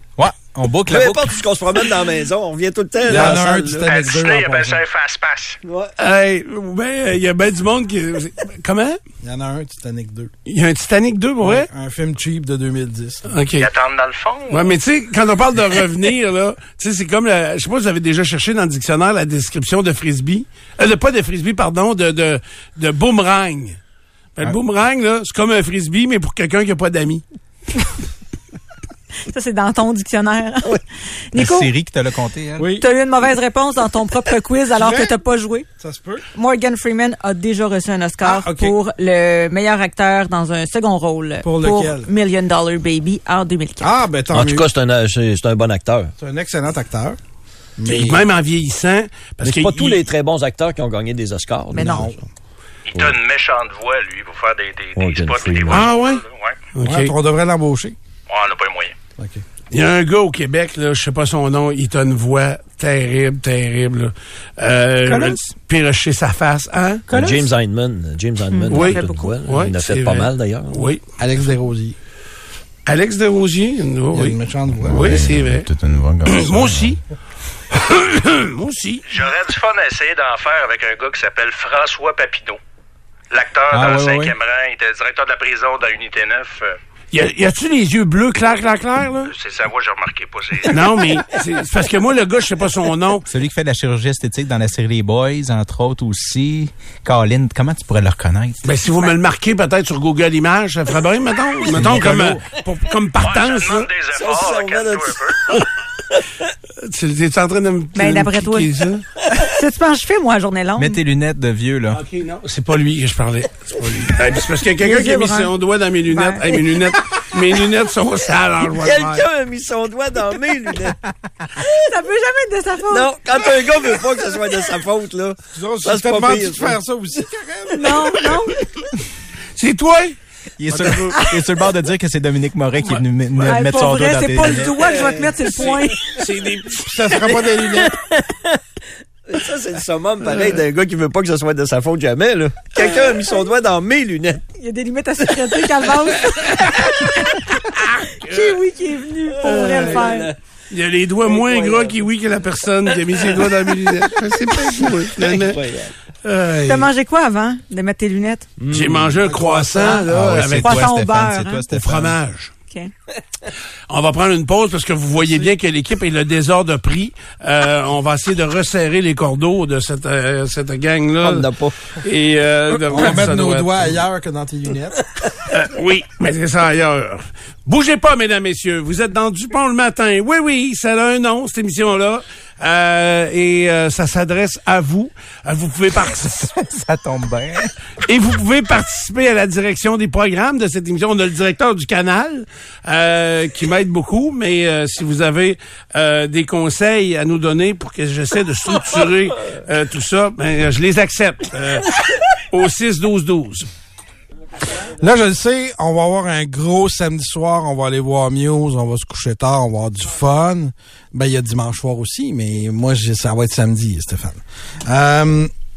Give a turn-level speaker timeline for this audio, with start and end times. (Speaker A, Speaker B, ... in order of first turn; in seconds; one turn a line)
Speaker A: 0.2-1.4
Speaker B: 0.8-3.9
Speaker C: 3.0-4.8
Speaker D: 3.9-5.6
Speaker B: 5.6-5.9
Speaker E: 6.0-9.0
Speaker C: 9.2-10.3
Speaker E: 10.4-11.7
Speaker C: 11.4-13.3
Speaker E: 13.3-13.7
Speaker D: 13.6-14.7
Speaker E: 14.5-23.8
Speaker E: 24.4-27.2
Speaker F: 29.3-31.7
Speaker A: 31.3-32.7
Speaker C: 32.6-32.9
Speaker F: 32.8-35.6
Speaker C: 34.7-35.1
Speaker C: 35.8-36.2
Speaker F: 36.3-43.9
Speaker C: 38.2-38.7
Speaker C: 41.4-42.1
Speaker C: 43.8-44.7
Speaker B: 44.3-46.1
Speaker C: 46.2-47.2
Speaker C: 47.8-48.2
Speaker E: 47.8-50.1
Speaker B: 49.4-52.2
Speaker F: 51.7-52.1
Speaker C: 51.8-52.2
Speaker D: 52.9-56.6
Speaker B: 55.0-55.9
Speaker E: 55.7-56.2
Speaker E: 56.7-57.1
Speaker C: 56.8-58.0
Speaker D: 58.3-58.9
Speaker C: 59.2-59.4
Speaker E: 59.7-67.1
Speaker F: 65.1-65.4
Speaker F: 67.1-67.4
Speaker B: 67.1-70.9
Speaker F: 68.5-69.3
Speaker E: 68.7-71.0
Speaker C: 71.2-72.0
Speaker E: 72.8-75.7
Speaker C: 74.1-75.3
Speaker A: 74.8-77.0
Speaker E: 76.2-77.0
Speaker E: 77.7-79.0
Speaker D: 79.1-82.6
Speaker D: 83.3-86.8
Speaker A: 83.7-84.3
Speaker E: 87.1-89.3
Speaker D: 89.2-90.8
Speaker E: 90.7-93.3
Speaker A: 93.3-98.6
Speaker E: 98.6-103.9
Speaker A: 101.7-102.4
Speaker D: 103.2-105.4
Speaker B: 104.1-105.6
Speaker E: 106.8-109.0
Speaker F: 107.9-108.7
Speaker F: 109.3-111.0
Speaker A: 110.8-112.0
Speaker E: 111.9-119.2
Speaker F: 114.8-115.5
Speaker F: 116.1-116.6
Speaker B: 118.7-121.0
Speaker F: 121.5-123.5
Speaker B: 122.9-126.8
Speaker C: 125.5-128.3
Speaker F: 127.7-128.6
Speaker E: 129.6-130.2
Speaker A: 130.6-134.8
Speaker E: 130.7-131.2
Speaker F: 133.4-136.1
Speaker B: 134.6-135.8
Speaker E: 135.6-137.2
Speaker C: 136.8-138.0
Speaker B: 137.7-138.6
Speaker B: 139.3-144.4
Speaker E: 142.8-143.1
Speaker F: 144.6-150.3
Speaker E: 148.2-148.5
Speaker B: 149.4-150.3
Speaker E: 149.4-150.1
Speaker E: 150.7-155.6
Speaker B: 151.2-152.0
Speaker B: 153.2-153.5
Speaker B: 154.7-155.9
Speaker E: 156.2-156.9
Speaker F: 156.6-158.5
Speaker B: 158.6-159.8
Speaker E: 158.7-160.9
Speaker A: 160.0-162.2
Speaker F: 160.6-161.6
Speaker E: 161.7-162.5
Speaker E: 163.9-173.9
Speaker B: 171.2-171.8
Speaker C: 172.9-175.0
Speaker E: 175.5-186.5
Speaker A: 186.4-187.7
Speaker E: 188.0-203.7
Speaker C: 205.0-215.5